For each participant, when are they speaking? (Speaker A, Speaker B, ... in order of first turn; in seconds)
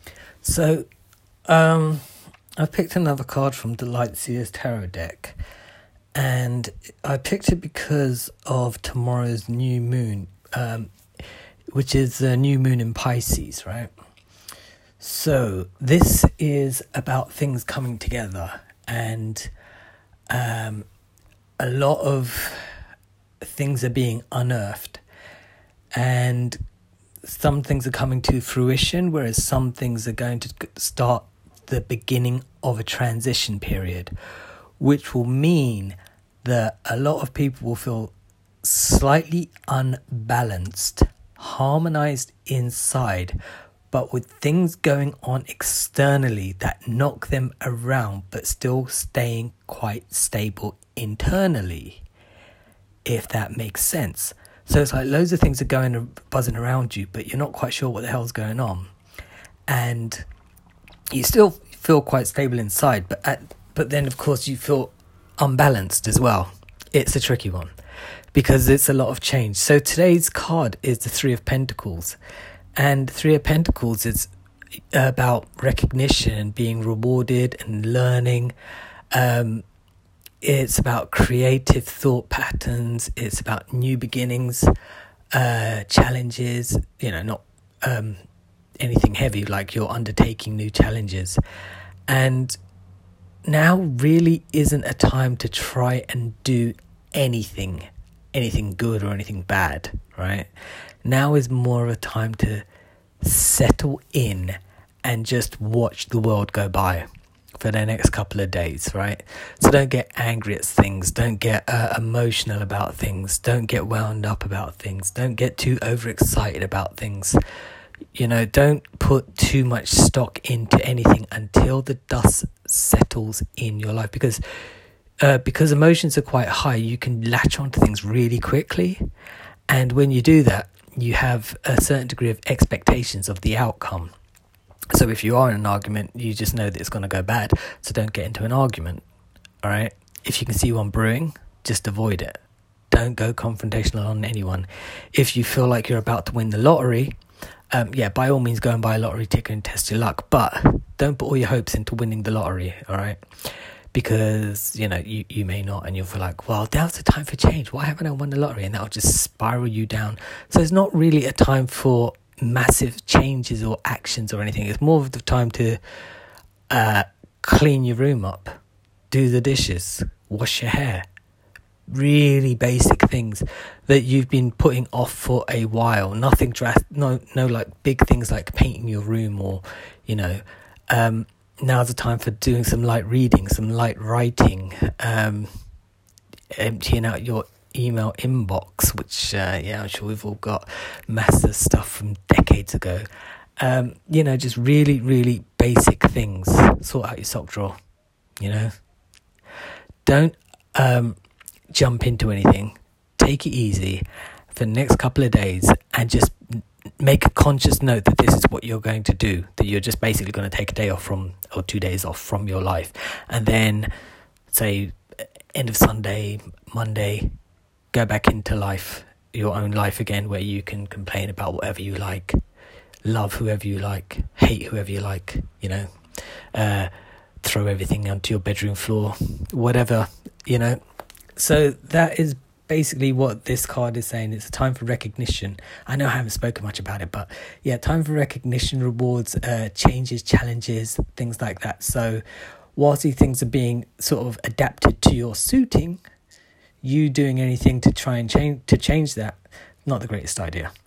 Speaker A: 0.4-0.8, 1.5-2.0, 2.6-5.3, 6.1-10.9, 11.7-13.9, 15.0-19.5, 20.3-20.9, 21.6-22.7, 23.4-25.0, 25.9-26.6, 27.2-34.1, 34.8-43.4, 43.9-52.0, 53.0-58.9, 59.7-60.2, 61.1-67.7, 68.3-72.2, 72.8-74.3, 74.9-78.5, 79.1-79.6, 80.4-84.7, 85.3-88.2, 88.8-91.4, 92.1-92.6, 93.5-100.5, 101.0-102.6, 103.2-107.0, 107.6-117.4, 118.1-124.4, 125.2-129.0, 129.7-134.1, 134.9-139.0, 139.6-147.1, 147.7-153.2, 153.9-165.8, 166.7-168.6, 169.1-171.0, 171.9-185.5, 186.5-193.0, 193.6-197.8, 198.4-198.7, 200.1-201.2, 201.7-206.3, 207.0-213.9, 214.5-214.9, 215.5-217.3, 217.9-222.4, 223.0-225.9, 226.5-226.9, 227.4-230.8, 231.3-242.2, 242.8-246.0, 246.8-250.7